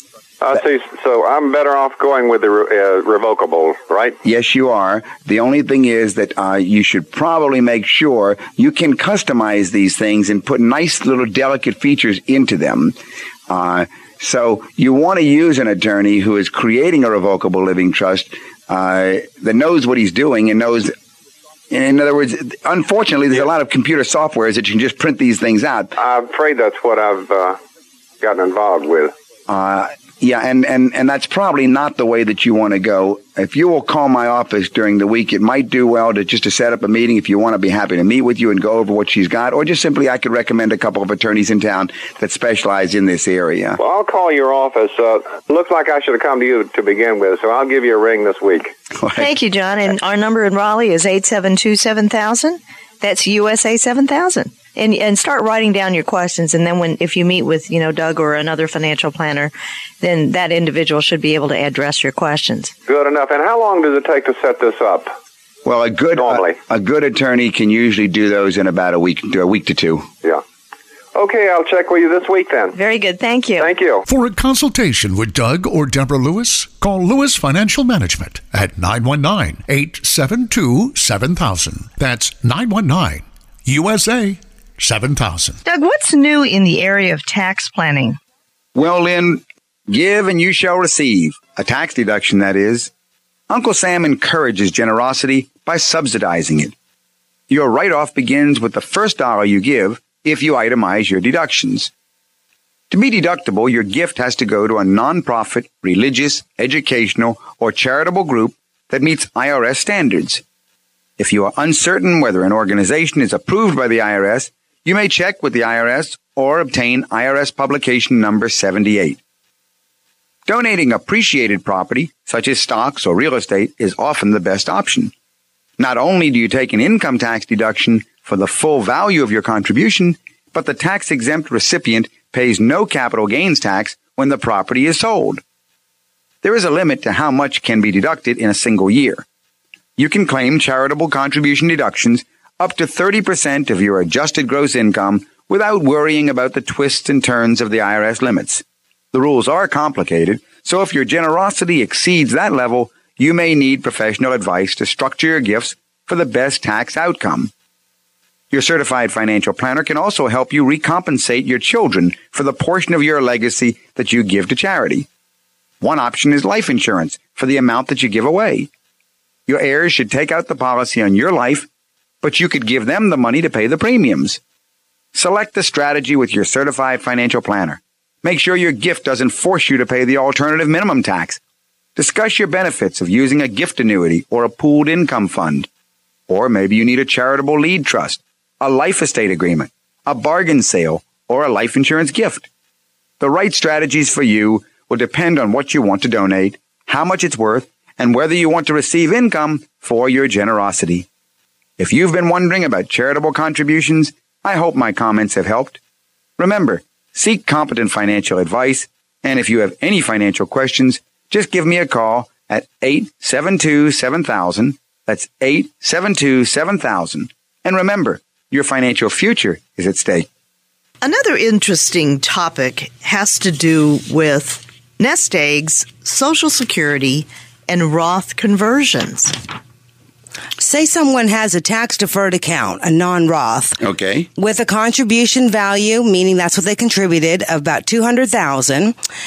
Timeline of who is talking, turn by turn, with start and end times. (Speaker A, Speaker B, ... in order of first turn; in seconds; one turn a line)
Speaker A: 0.4-4.2
Speaker B: 4.2-13.0
Speaker B: 13.5-20.9
Speaker B: 21.7-25.9
Speaker A: 25.9-27.6
Speaker A: 28.2-29.1
Speaker B: 29.5-43.8
Speaker A: 43.8-48.7
Speaker B: 49.0-49.3
Speaker C: 49.2-62.7
Speaker A: 62.9-65.1
Speaker B: 65.6-70.1
Speaker A: 66.2-66.6
Speaker A: 71.1-72.8
Speaker C: 72.7-73.7
Speaker A: 73.6-74.0
Speaker D: 74.1-85.6
Speaker C: 85.6-88.2
Speaker B: 88.7-92.9
Speaker B: 93.5-96.7
Speaker B: 97.5-101.9
Speaker B: 102.9-110.4
Speaker B: 111.2-119.2
Speaker B: 120.5-125.1
Speaker B: 125.8-135.4
Speaker B: 136.4-139.2
Speaker B: 140.0-157.5
Speaker B: 158.5-165.1
Speaker B: 165.8-168.7
Speaker B: 169.5-171.7
Speaker B: 172.2-174.4
Speaker B: 175.1-181.4
Speaker B: 181.9-185.7
Speaker B: 186.3-192.5
Speaker B: 193.2-201.1
Speaker B: 201.8-205.8
Speaker B: 206.4-220.3
Speaker C: 221.0-229.3
Speaker E: 230.6-233.8
Speaker B: 233.8-234.3
Speaker E: 234.4-238.9